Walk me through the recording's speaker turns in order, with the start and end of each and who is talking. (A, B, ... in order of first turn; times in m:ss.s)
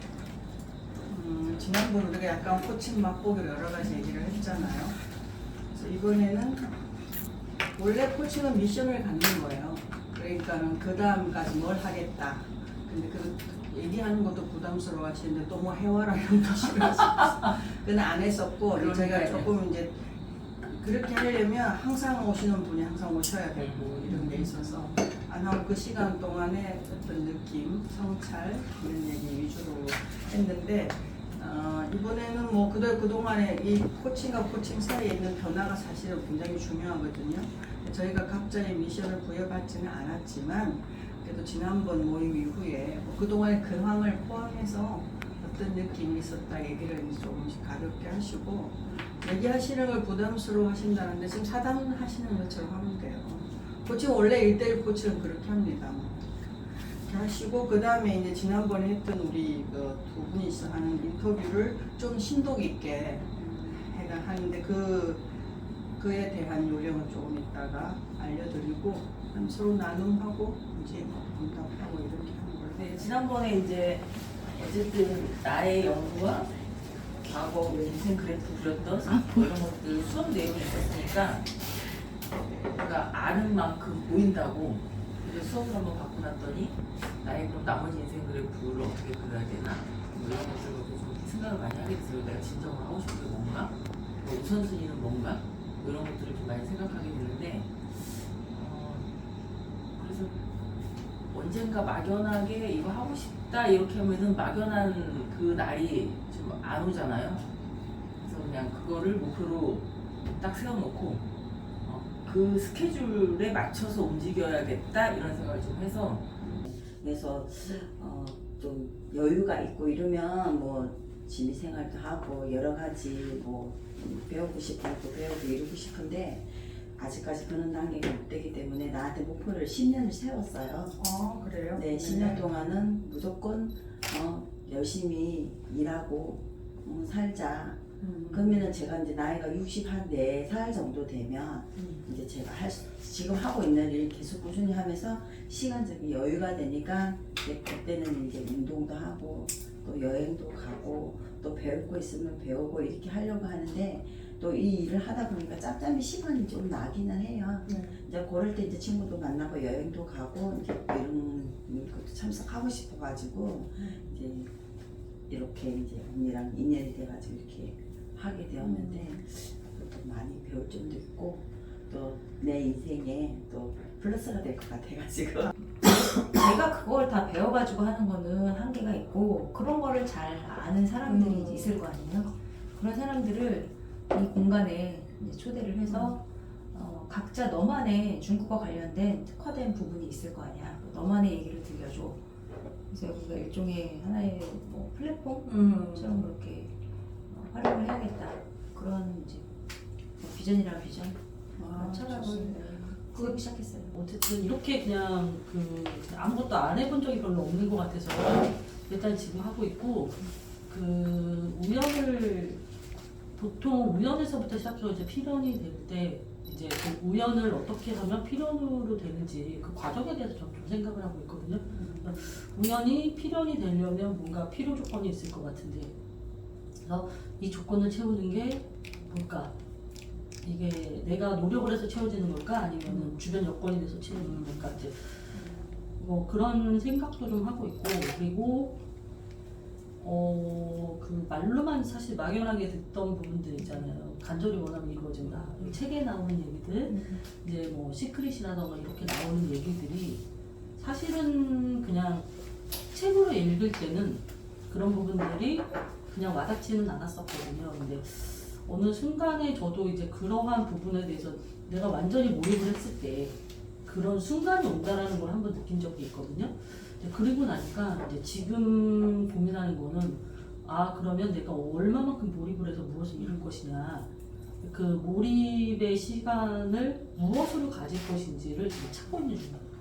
0:01.0-0:05.0 A
0:05.7-0:06.7 A
0:07.7-1:05.3 A
0:16.7-0:17.1 B
0:18.8-0:19.5 B
0:23.6-0:24.9 B
1:06.0-1:13.3 A
1:12.8-1:16.5 B
1:17.2-1:21.5 B
1:22.7-1:39.1 B
1:40.0-1:40.4 B
1:41.3-1:47.5 B
1:48.2-1:51.2 B
1:51.8-1:56.3 B
1:56.4-2:11.0 C
2:11.0-2:12.9 A
2:11.7-2:44.5 C
2:18.0-2:18.7 A
2:45.3-2:55.5 C
2:48.6-2:49.1 D
2:55.8-3:12.2 D
3:12.9-3:16.8 D
3:15.4-3:16.1 A
3:17.3-3:19.4 D
3:20.2-3:24.0 D
3:21.6-3:23.2 A
3:23.9-3:32.6 E
3:33.3-3:45.9 E
3:41.7-3:42.2 A
3:46.8-3:49.5 E
3:50.4-3:55.3 E
3:52.9-3:53.2 A
3:54.1-3:54.7 A
3:56.0-3:58.8 E
4:00.0-4:10.2 E
4:05.3-4:05.8 A
4:06.9-4:07.2 D
4:10.8-4:12.3 E
4:12.9-4:34.1 E
4:34.6-4:39.7 E